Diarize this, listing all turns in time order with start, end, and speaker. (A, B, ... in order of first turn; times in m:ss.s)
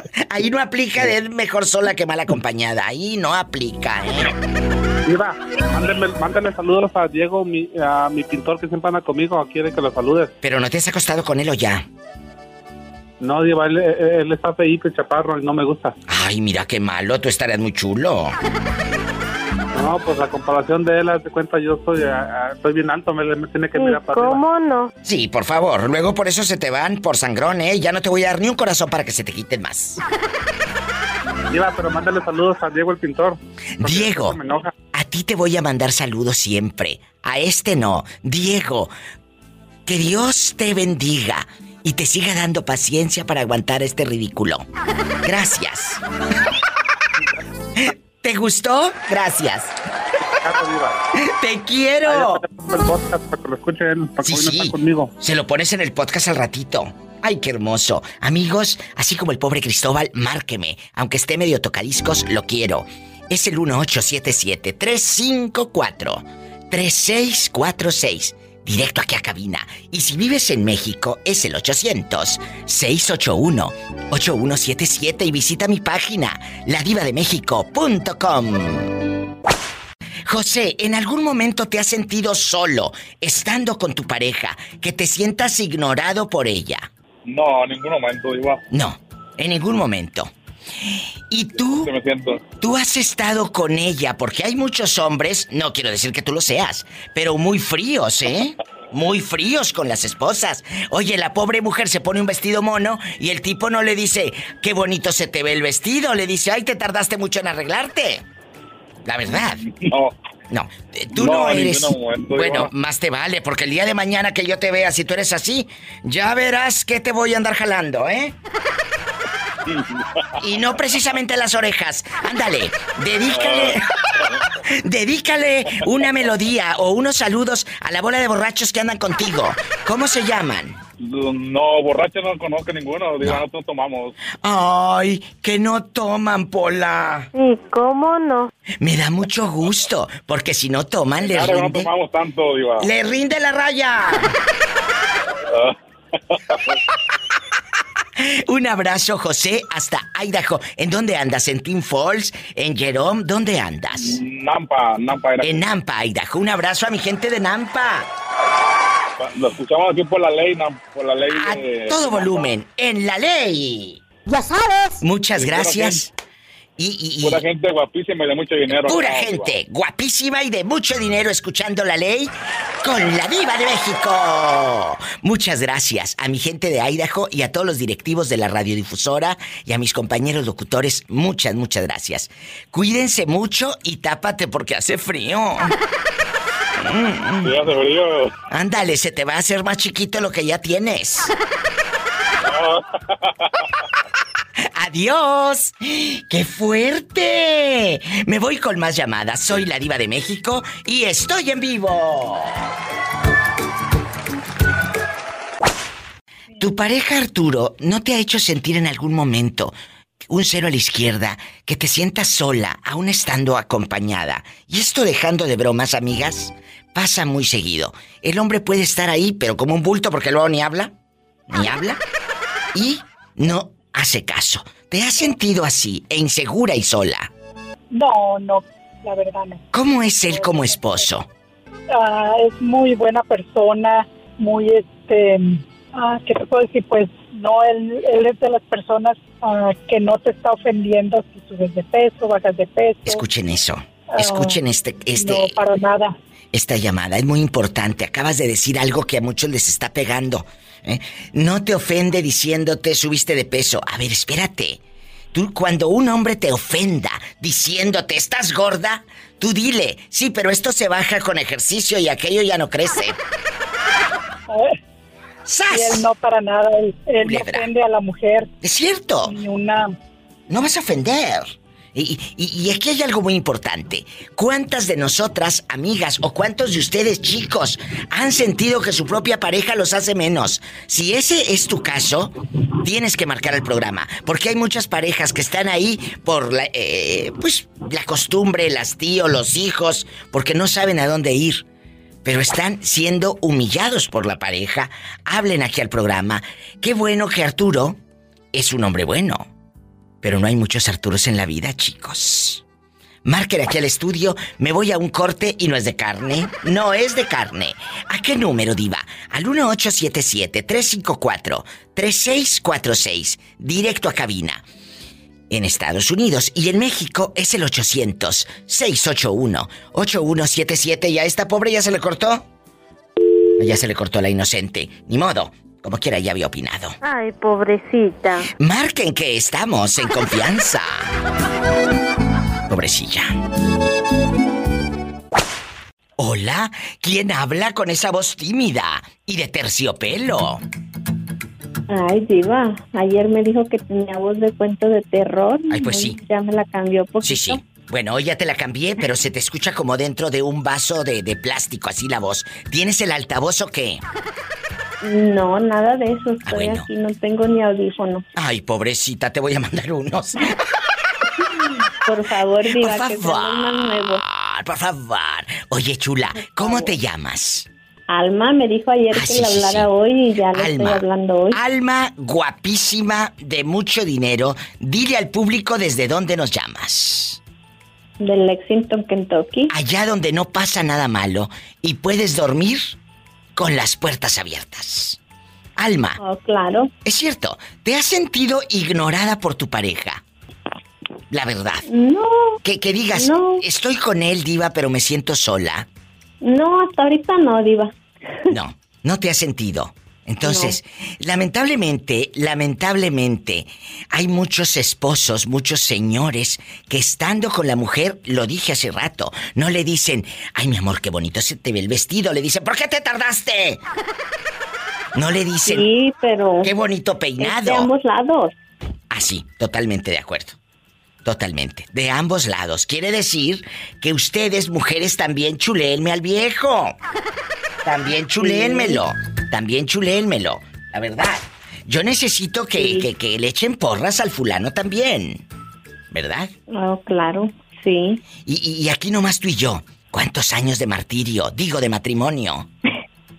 0:00.3-0:04.3 A
0:05.1-0:10.3 B
0:10.4-0:11.8 A
0:13.2-0:16.0 B
0:16.1-0:18.4 A
0:19.7-0:24.4 B
0:23.7-0:24.9 C
0:25.0-0:30.0 A
0:31.5-0:34.7 B
0:33.8-0:34.4 A
0:34.9-0:38.9 A
0:39.9-0:44.6 A
0:45.2-0:46.0 A
0:47.8-0:49.8 A
0:50.4-0:51.0 B
0:51.2-0:52.4 A
0:52.1-0:55.1 B
0:54.2-1:18.9 A
1:20.3-1:26.9 A
1:27.3-1:28.6 D
1:28.7-1:30.3 A
1:31.3-1:31.9 A
1:31.8-1:32.4 D
1:32.6-1:48.2 A
1:49.0-1:49.6 A
1:49.7-1:50.1 D
1:50.5-1:58.4 A
1:51.1-1:52.7 D
1:59.7-2:00.0 D
2:00.4-2:03.8 A
2:03.3-2:03.8 D
2:04.8-2:10.8 A
2:11.0-2:14.2 D
2:13.2-2:13.5 A
2:14.4-2:17.3 A
2:17.4-2:18.5 C
2:18.8-2:21.9 A
2:21.2-2:22.9 D
2:22.8-2:24.3 A
2:26.3-2:26.6 D
2:28.2-2:34.2 A
2:33.9-2:35.6 D
2:35.4-2:38.1 A
2:39.2-2:42.4 D
2:41.3-2:44.0 A
2:45.0-2:46.1 A
2:45.4-2:46.0 D
2:46.8-2:47.4 A
2:47.2-2:49.5 D
2:48.6-3:05.7 A
3:06.8-3:07.6 A
3:07.4-3:08.3 D
3:08.5-3:11.3 A
3:12.4-3:12.8 D
3:14.8-3:22.6 A
3:26.6-3:29.7 A
3:30.3-3:40.9 A
3:41.5-3:42.0 A
3:42.7-3:47.3 A
3:47.9-3:49.6 E
3:49.7-3:51.3 A
3:50.3-3:51.1 E
3:51.9-4:03.2 E
4:03.0-4:05.6 A
4:04.1-4:04.6 E
4:05.1-4:06.2 E
4:06.5-4:14.8 A
4:15.3-4:23.2 A
4:24.5-4:24.8 E
4:25.5-4:26.1 A
4:25.7-4:28.5 E
4:27.2-4:27.7 A
4:28.6-4:29.3 A
4:29.2-4:30.0 E
4:30.5-4:51.6 A
4:52.2-4:58.0 A
4:58.5-4:59.5 A
5:00.2-5:02.6 A
5:03.2-5:14.6 A
5:15.5-5:22.5 A
5:23.6-5:27.0 A
5:27.0-5:28.5 C
5:28.6-5:31.1 A
5:32.7-5:33.3 A
5:36.2-5:40.6 A
5:41.9-5:47.6 F
5:45.7-5:46.2 A
5:47.2-5:54.0 A
5:55.0-5:58.2 F
5:56.4-5:56.9 A
5:58.4-6:00.5 A
6:02.0-6:04.2 F
6:02.7-6:07.7 A
6:06.4-6:06.9 F
6:08.1-6:11.6 F
6:09.1-6:09.9 A
6:10.5-6:17.4 A
6:18.2-6:19.7 F
6:19.7-6:23.0 A
6:23.6-6:25.2 A
6:25.8-6:26.2 A
6:26.2-6:26.9 F
6:27.0-6:30.2 A
6:31.3-6:31.9 A
6:31.9-6:32.6 F
6:32.6-6:35.9 A
6:33.2-6:33.6 F
6:36.4-6:37.9 F
6:38.5-6:53.8 A
6:40.4-6:40.8 F
6:55.2-6:55.9 A
6:55.7-6:56.7 F
6:56.6-6:57.9 A
6:57.4-6:58.5 F
6:59.1-7:00.6 A
7:01.2-7:07.0 A
7:07.8-7:15.4 A
7:08.4-7:09.0 F
7:12.8-7:13.1 F
7:16.1-7:16.5 A
7:16.7-7:18.2 F
7:18.4-7:22.7 A